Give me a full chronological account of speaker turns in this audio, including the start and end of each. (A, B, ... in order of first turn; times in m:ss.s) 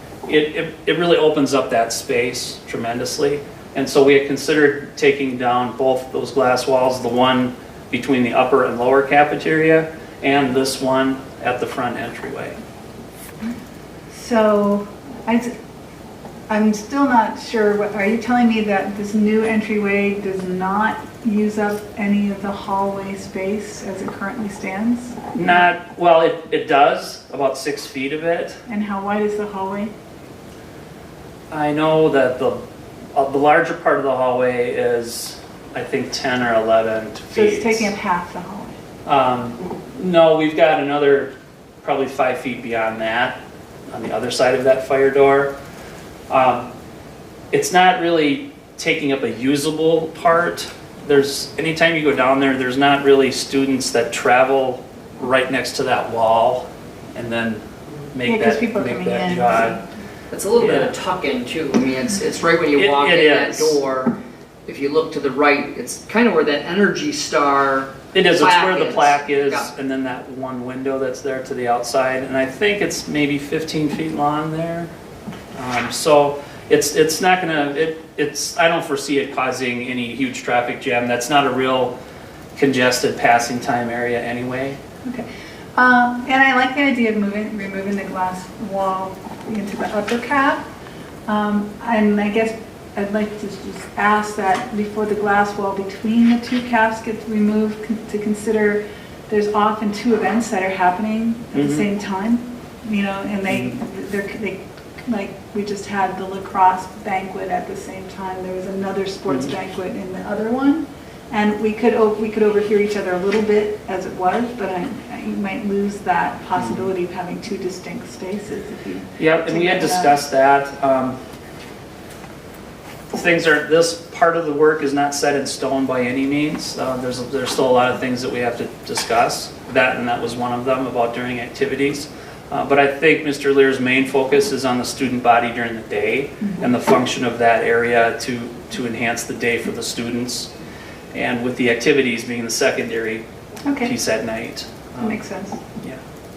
0:00.3-0:12.6 A
0:14.1-0:15.5 B
0:16.5-0:25.2 B
0:25.3-0:28.6 A
0:28.7-0:29.9 B
0:31.5-0:32.6 A
0:33.1-0:37.9 A
0:37.3-0:38.8 B
0:39.0-0:41.3 A
0:41.8-0:43.4 A
0:43.9-0:45.5 A
0:46.3-0:46.7 A
0:47.5-0:59.8 A
0:58.2-0:59.8 B
1:00.3-1:09.7 C
1:00.6-1:00.9 A
1:02.8-1:03.8 A
1:08.1-1:14.9 A
1:15.5-1:21.9 A
1:22.6-1:24.8 A
1:25.0-1:30.6 B
1:31.3-2:00.2 B
1:41.5-1:41.8 A
1:56.6-1:56.9 A
1:59.2-2:01.2 A
2:03.1-2:20.5 A
2:21.1-2:23.2 A
2:23.6-2:23.9 B
2:23.8-2:25.2 A
2:25.0-2:25.6 B